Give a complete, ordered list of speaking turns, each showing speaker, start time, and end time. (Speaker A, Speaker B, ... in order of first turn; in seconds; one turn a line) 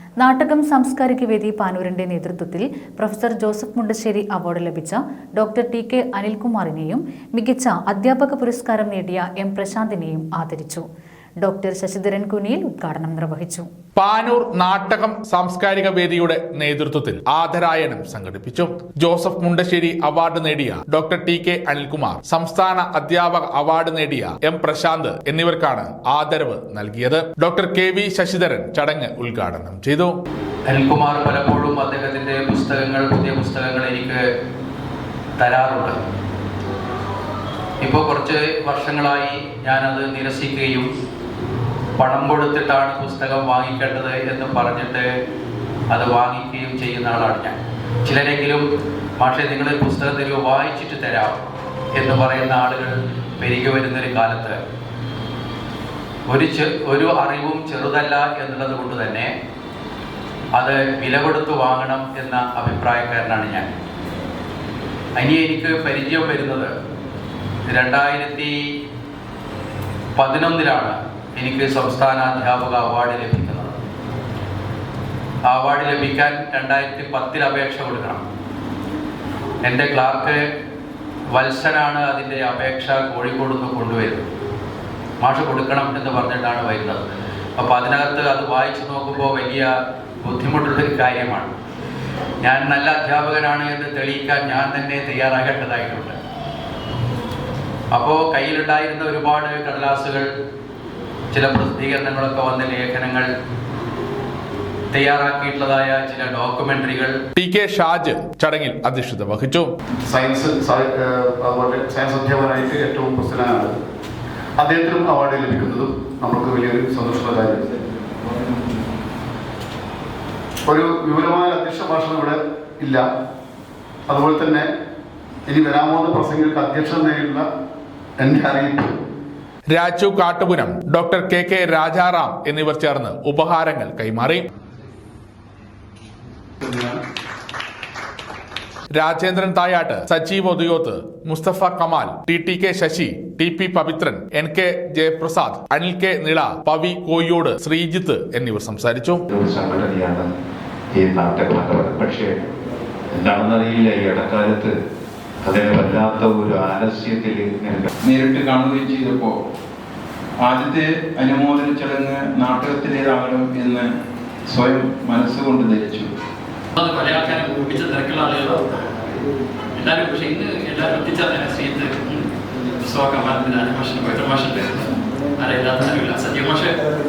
Speaker A: 0.2-10.8
Speaker A: 11.4-13.7
Speaker B: 14.0-30.1
Speaker C: 30.7-34.2
Speaker C: 35.4-36.0
Speaker C: 37.8-40.9
Speaker C: 42.0-45.1
Speaker C: 45.9-48.6
Speaker C: 49.2-51.4
Speaker C: 52.0-54.6
Speaker C: 56.3-59.3
Speaker C: 60.6-63.7
Speaker C: 65.2-66.7
Speaker C: 67.7-68.5
Speaker C: 70.2-73.7
Speaker C: 75.5-78.2
Speaker C: 79.6-80.4
Speaker C: 81.3-84.2
Speaker C: 85.2-87.0
Speaker C: 87.6-91.5
Speaker C: 92.4-96.2
Speaker C: 97.9-100.3
Speaker C: 101.3-103.3
Speaker C: 104.9-107.2
Speaker B: 107.4-109.7
Speaker D: 110.1-113.8
Speaker D: 114.6-117.7
Speaker D: 120.7-123.1
Speaker D: 124.1-124.7
Speaker D: 125.5-127.5
Speaker D: 128.2-129.0
Speaker B: 129.7-134.4
Speaker D: 136.6-137.0
Speaker B: 138.9-149.2
Speaker E: 149.3-150.3
Speaker E: 150.9-152.4
Speaker E: 153.1-154.7
Speaker E: 155.4-157.9
Speaker F: 158.0-159.4
Speaker F: 160.4-163.9
Speaker F: 164.5-166.1
Speaker G: 166.8-168.7
Speaker G: 169.8-172.3
Speaker G: 172.8-176.8